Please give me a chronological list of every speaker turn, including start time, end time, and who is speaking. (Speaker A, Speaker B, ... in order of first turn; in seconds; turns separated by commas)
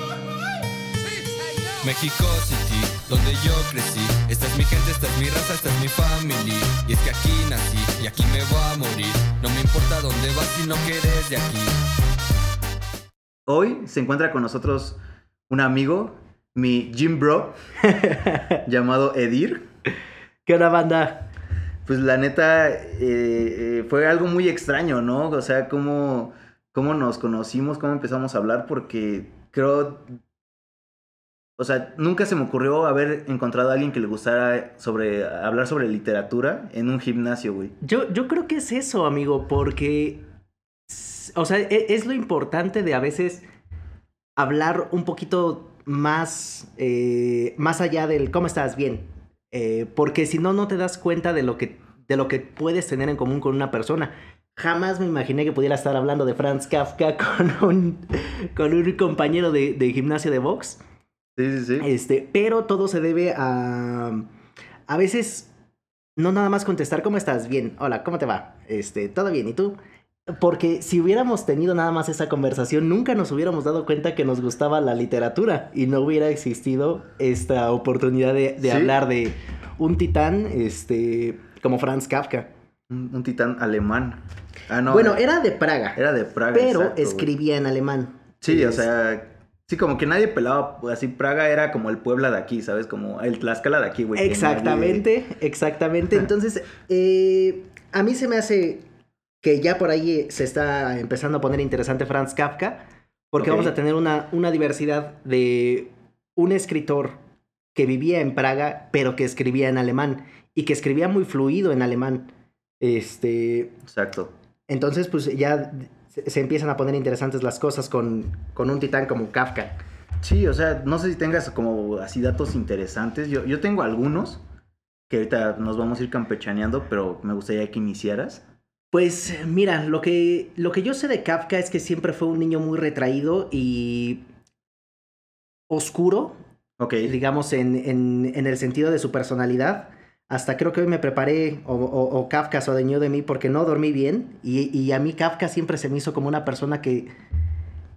Speaker A: 1.8-11.8, Speaker B: 13.5-17.6, Speaker C: 17.8-18.6, Speaker B: 18.7-19.6, Speaker C: 20.5-21.3, Speaker B: 21.9-30.1, Speaker B: 31.6-37.8, Speaker C: 37.8-40.2, Speaker C: 40.9-43.4, Speaker C: 44.4-60.8, Speaker B: 61.4-61.9, Speaker C: 61.8-64.3, Speaker C: 64.9-65.5, Speaker C: 66.2-69.8, Speaker C: 70.3-82.5, Speaker B: 78.6-78.9, Speaker B: 82.9-85.2, Speaker C: 84.9-86.0, Speaker B: 85.9-87.3, Speaker C: 86.5-88.9, Speaker B: 88.4-95.0, Speaker C: 94.1-98.8, Speaker C: 99.4-107.2, Speaker B: 103.4-103.7, Speaker C: 107.7-112.3, Speaker C: 112.8-113.8, Speaker B: 113.8-114.3, Speaker C: 114.7-119.8, Speaker B: 120.2-124.4, Speaker B: 125.1-128.4, Speaker C: 128.9-134.2, Speaker C: 135.7-136.4, Speaker B: 136.8-137.1, Speaker C: 137.0-147.1